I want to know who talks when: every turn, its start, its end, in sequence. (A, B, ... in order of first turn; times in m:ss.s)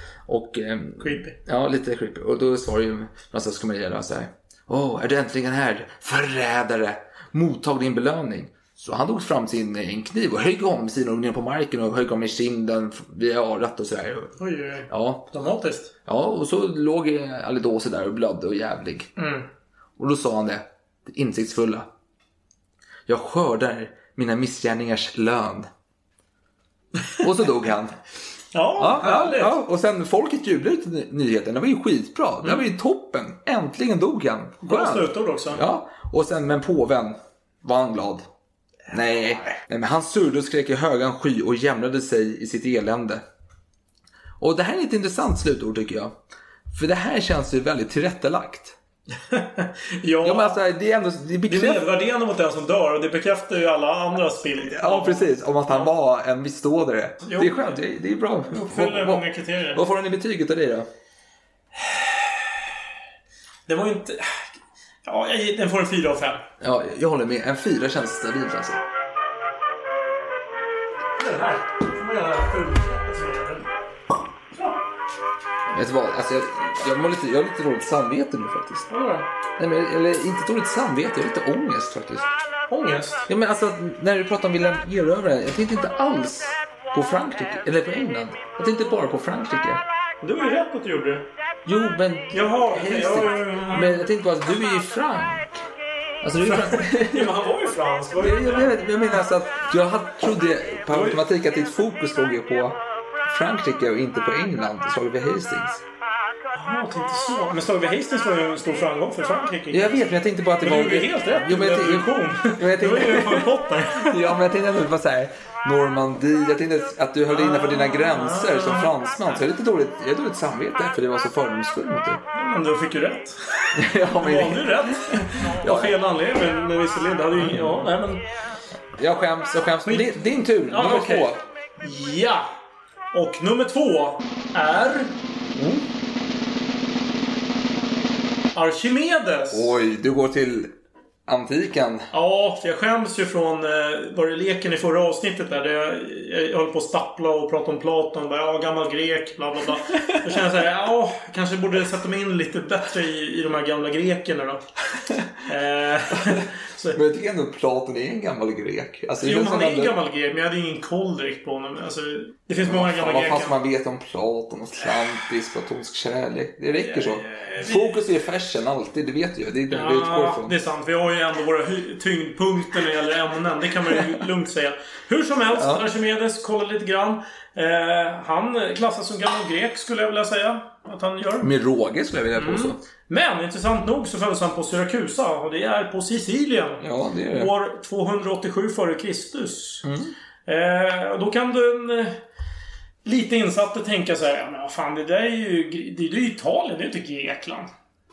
0:00.3-0:14.4 A
0:01.0-0:01.4 B
0:14.4-0:15.9 B
0:14.9-0:15.3 A
0:16.1-0:19.1 A
0:19.2-0:19.5 B
0:20.0-0:21.9 A
0:23.1-0:25.7 A
0:27.2-0:28.0 A
0:28.5-0:29.6 B
0:28.8-0:38.3 A
0:34.6-0:35.6 B
0:38.9-0:43.2 A
0:44.4-0:46.2 A
0:46.7-0:48.8 A
0:49.3-0:50.6 B
0:50.2-0:51.9 A
0:51.5-0:55.9 B
0:54.6-1:00.9 A
0:57.2-0:57.8 B
0:58.5-0:59.8 B
1:01.8-1:02.5 B
1:03.7-1:04.5 B
1:05.0-1:06.4 B
1:06.6-1:08.8 A
1:11.2-1:13.7 B
1:14.5-1:14.8 B
1:15.7-1:18.9 A
1:18.9-1:19.3 B
1:19.6-1:22.3 A
1:22.7-1:23.3 B
1:23.3-1:29.8 A
1:30.2-1:31.3 B
1:31.7-1:35.6 A
1:32.3-1:34.0 B
1:36.2-1:37.3 A
1:36.4-1:38.8 B
1:38.2-1:45.8 A
1:40.9-1:41.2 B
1:46.5-1:50.0 B
1:49.7-2:02.2 A
1:50.6-1:54.4 B
1:57.3-1:58.9 B
2:02.3-2:08.2 B
2:03.8-2:06.0 A
2:07.4-2:07.9 A
2:09.0-2:11.4 A
2:09.8-2:12.4 B
2:13.1-2:15.1 B
2:15.6-2:15.9 A
2:18.6-2:19.7 B
2:19.5-2:20.7 A
2:21.3-2:22.1 A
2:22.1-2:34.6 B
2:35.5-2:37.0 B
2:36.2-2:39.9 A
2:39.2-2:43.6 B
2:42.6-2:50.6 A
2:46.8-2:48.0 B
2:49.7-3:01.5 B
2:55.6-2:55.9 A
3:01.4-3:02.8 A
3:02.4-3:09.9 B
3:06.8-3:07.5 A
3:09.8-3:10.1 A
3:10.5-3:12.2 B
3:13.0-3:17.7 B